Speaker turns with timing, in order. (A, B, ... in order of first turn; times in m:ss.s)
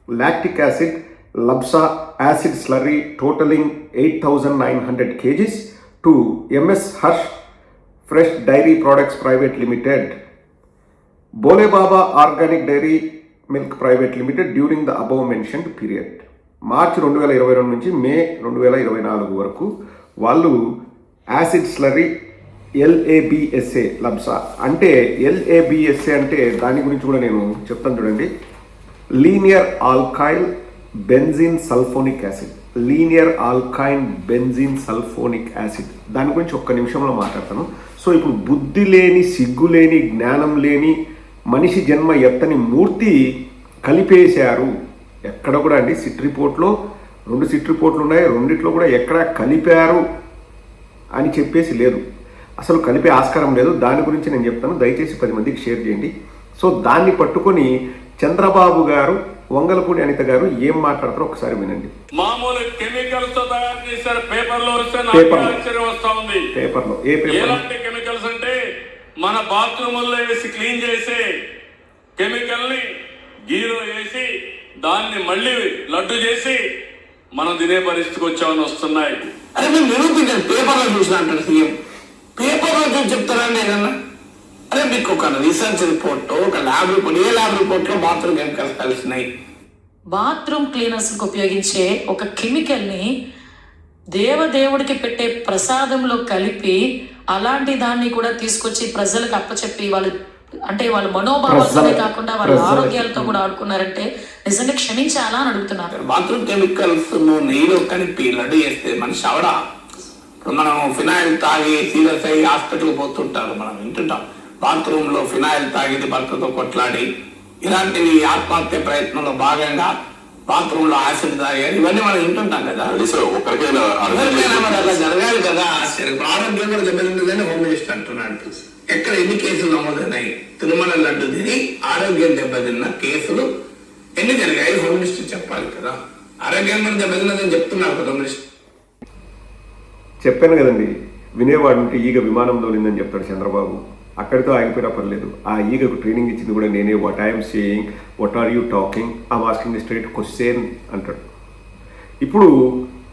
0:00.2-0:07.3 A
0:08.1-0:10.2 A
0:11.4-0:13.0 A
0:13.5-0:19.7 A
0:20.2-0:20.6 A
0:21.3-0:22.1 A
0:22.8-0:28.3 A
0:29.2-0:30.5 A
0:31.1-0:41.0 A
0:41.5-0:43.2 A
0:43.8-0:44.7 A
0:45.3-0:46.7 A
0:47.3-0:50.0 A
0:51.2-0:52.0 A
0:52.6-0:57.7 A
0:58.2-1:01.9 A
1:02.2-1:06.4 B
1:05.1-1:05.6 A
1:06.5-1:07.6 A
1:07.3-1:08.6 B
1:09.2-1:11.2 B
1:12.2-1:12.9 B
1:13.5-1:14.3 B
1:14.8-1:16.6 B
1:17.4-1:19.2 B
1:19.6-1:21.7 C
1:22.4-1:23.9 C
1:24.7-1:29.3 C
1:30.1-1:33.1 D
1:34.2-1:36.8 D
1:37.3-1:40.1 D
1:40.7-1:45.9 D
1:41.5-1:43.4 A
1:46.0-1:49.6 C
1:50.4-1:57.1 C
1:57.6-2:00.0 C
2:00.5-2:03.2 C
2:02.9-2:05.1 E
2:04.0-2:13.5 C
2:14.2-2:18.4 C
2:20.2-2:31.2 A
2:32.2-2:32.5 A